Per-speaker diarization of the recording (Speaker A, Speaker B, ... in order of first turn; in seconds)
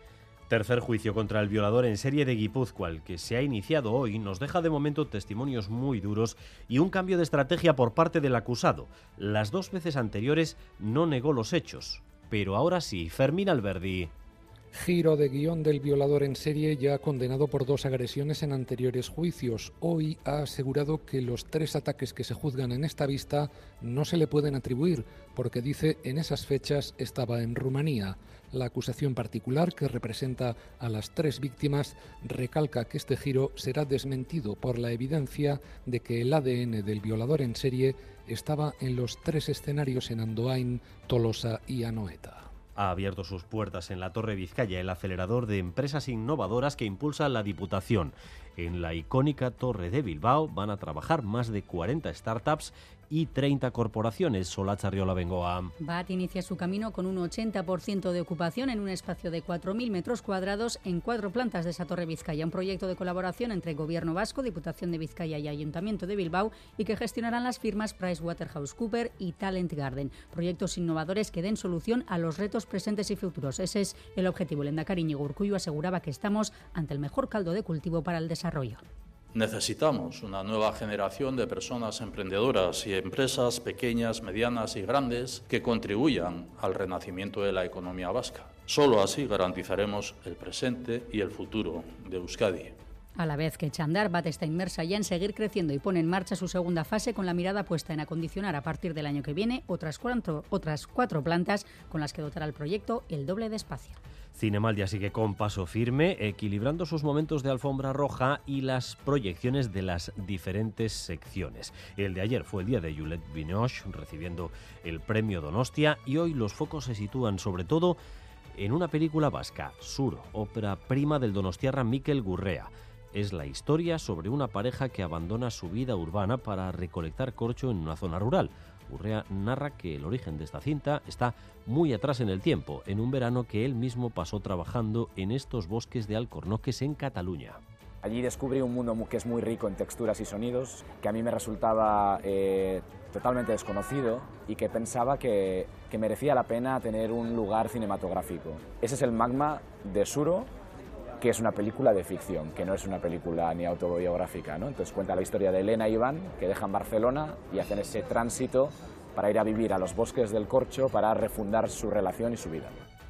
Speaker A: 0.5-14.1, 42.8-55.7, 104.4-118.0, 118.5-137.6
Speaker B: 14.7-42.5
Speaker C: 55.8-78.8, 93.2-104.0
Speaker D: 79.3-92.8
Speaker E: 138.0-150.5, 151.2-162.8